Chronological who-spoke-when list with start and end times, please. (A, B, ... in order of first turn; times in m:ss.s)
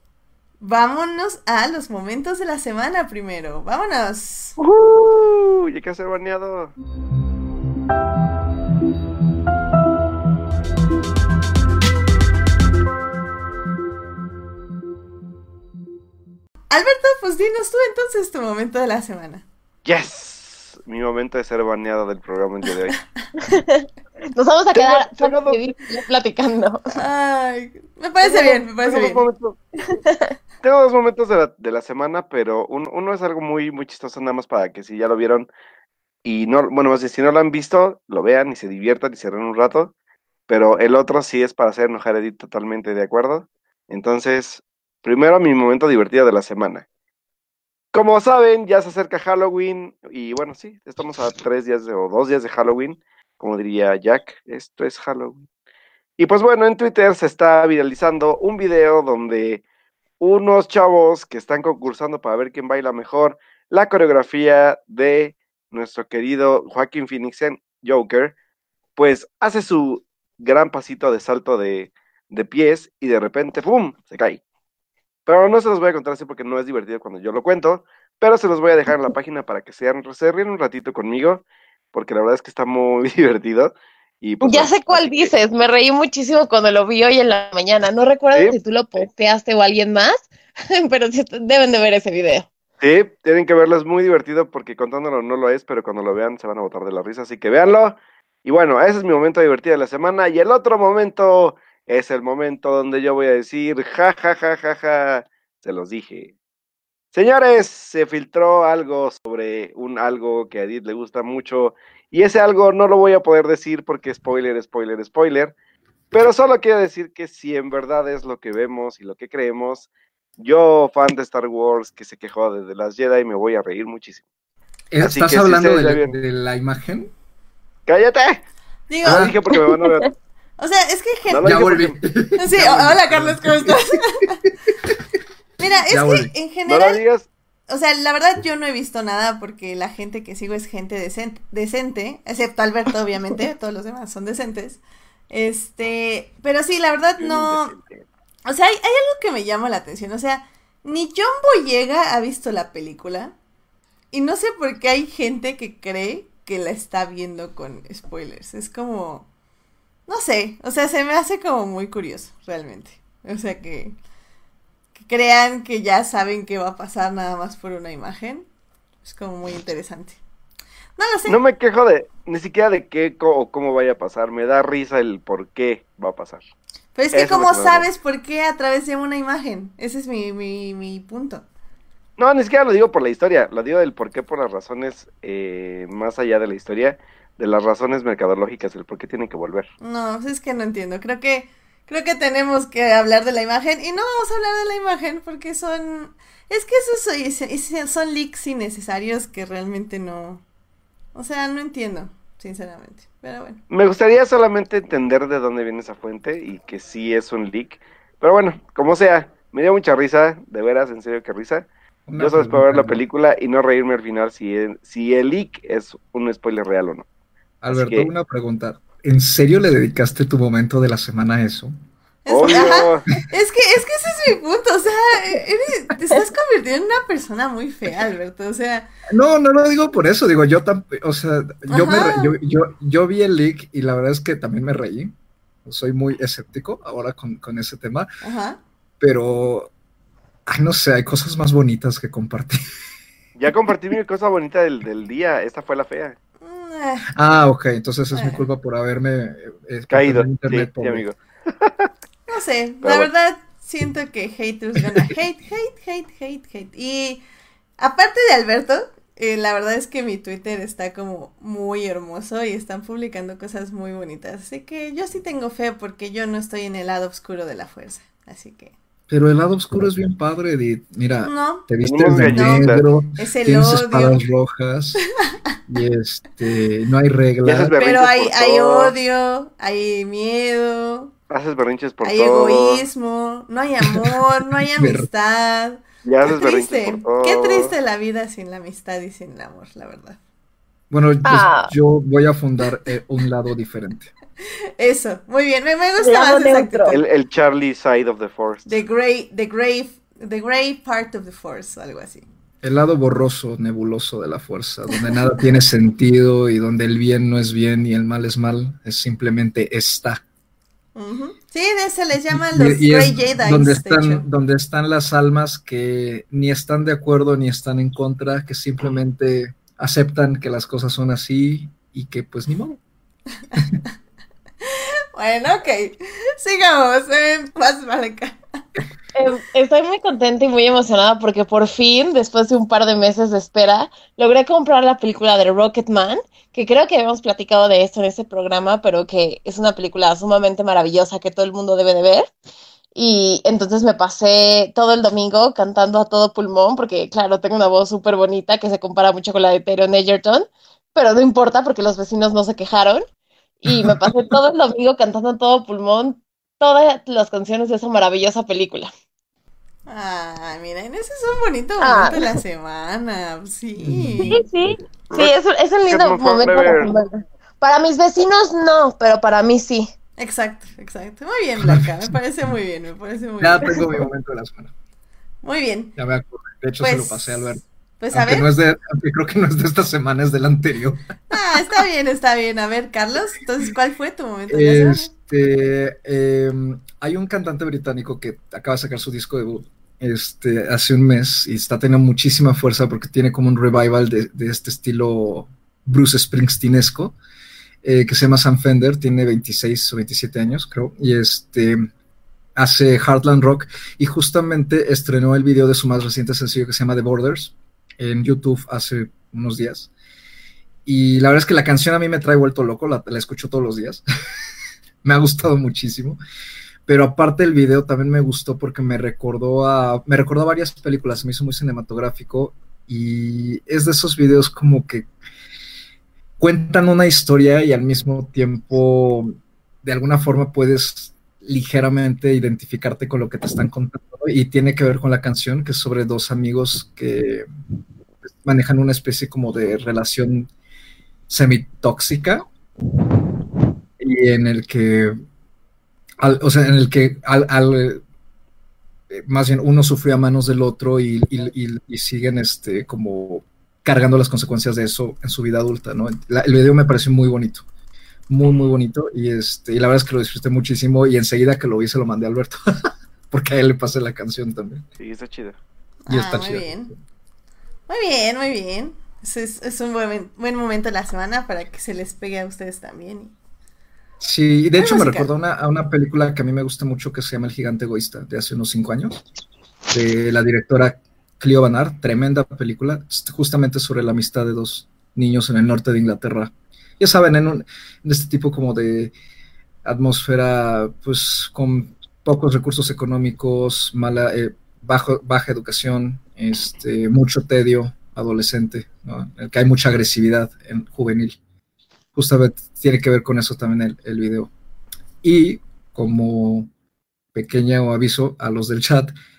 0:00.6-0:04.6 A
0:04.6-0:06.7 B
0:16.7-0:19.4 A
0:19.8-0:23.0 B
0:23.4-0:26.8 C
0:24.7-0:25.6 B
0:26.9-0:29.2 A
0:28.3-0:29.6 B
0:30.0-0:30.3 C
0:30.6-0:35.5 B
0:36.2-0:39.9 B
0:40.5-0:46.8 B
0:47.9-0:55.4 B
0:56.2-0:59.6 B
1:00.2-1:08.3 B
1:09.0-1:14.4 B
1:15.2-1:25.3 B
1:24.4-1:32.5 C
1:28.3-1:29.0 B
1:32.8-1:46.3 B
1:47.1-1:55.5 B
1:56.1-2:04.2 B
2:04.9-2:07.1 D
2:05.0-2:06.1 B
2:07.9-2:08.4 B
2:08.9-2:09.3 A
2:09.0-2:10.1 B
2:09.0-2:09.4 D
2:10.6-2:11.5 A
2:11.3-2:12.0 B
2:11.4-2:13.8 D
2:12.4-2:14.4 A
2:15.6-2:17.0 A
2:15.8-2:16.3 D
2:16.6-2:17.2 B
2:17.7-2:27.7 A
2:27.2-2:28.0 B
2:28.4-2:33.3 A
2:34.1-2:39.3 A
2:40.1-2:44.0 A
2:45.0-2:48.4 A
2:49.0-2:50.2 A
2:51.0-2:51.4 A
2:51.2-2:56.4 B
2:56.9-3:01.4 A
2:57.1-2:57.9 B
3:02.2-3:09.7 B
3:09.8-3:20.4 A
3:21.1-3:23.6 A
3:23.7-3:31.7 B
3:32.1-3:33.0 D
3:32.2-3:37.0 B
3:37.6-3:41.7 D
3:37.7-3:38.1 B
3:42.2-3:48.9 A
3:42.3-3:43.0 B
3:42.4-3:43.2 D
3:49.1-3:55.1 D
3:51.7-3:52.3 A
3:55.6-3:58.1 D
3:58.2-3:58.6 A
3:59.0-3:59.7 D
4:00.5-4:02.6 D
4:03.4-4:06.2 B
4:06.4-4:07.1 A
4:07.1-4:11.0 D
4:08.1-4:08.4 A
4:09.9-4:11.9 B
4:12.3-4:17.2 A
4:12.8-4:13.1 B
4:17.8-4:28.7 A
4:29.1-4:35.0 D
4:31.2-4:31.7 A
4:31.8-4:32.8 B
4:32.3-4:34.2 A
4:35.7-4:37.7 D
4:37.4-4:38.9 B
4:37.8-4:41.1 A
4:41.3-4:42.9 B
4:42.0-4:50.2 A
4:44.6-4:45.1 D
4:46.0-4:47.7 B
4:50.9-4:54.1 D
4:51.2-4:51.7 C
4:54.8-4:57.0 A
4:56.0-4:57.0 C
4:56.9-4:58.6 B
4:58.6-5:02.2 A
5:02.6-5:10.2 D
5:10.9-5:14.2 A
5:12.3-5:22.8 D
5:24.6-5:28.4 A
5:29.1-5:42.3 C
5:42.9-5:53.0 C
5:53.6-5:58.9 C
5:53.7-5:54.1 D
5:59.9-6:04.4 A
6:01.8-6:02.2 C
6:03.8-6:04.4 D
6:04.2-6:09.9 C
6:05.1-6:06.9 B
6:10.2-6:14.0 A
6:11.6-6:11.9 D
6:13.4-6:14.7 D
6:15.4-6:15.9 A
6:16.0-6:21.0 D
6:16.8-6:18.5 A
6:21.3-6:25.1 A
6:24.5-6:37.1 D
6:37.8-6:41.9 D
6:42.6-6:49.9 D
6:50.8-6:54.0 D
6:55.0-6:56.2 D
6:56.8-7:05.1 D
7:06.4-7:17.4 D
7:18.4-7:20.5 D
7:21.3-7:22.5 D
7:24.0-7:25.2 D
7:26.2-7:28.0 D
7:29.1-7:37.6 D
7:38.3-7:42.6 D
7:43.3-7:44.8 D
7:45.0-7:45.6 B
7:46.0-7:46.9 A
7:46.1-7:46.8 D
7:47.9-7:53.3 A
7:54.2-7:59.2 D
7:54.8-7:55.3 A
7:59.9-8:09.1 D
8:09.8-8:21.4 D
8:22.1-8:24.5 D
8:25.2-8:26.7 D
8:27.3-8:29.1 D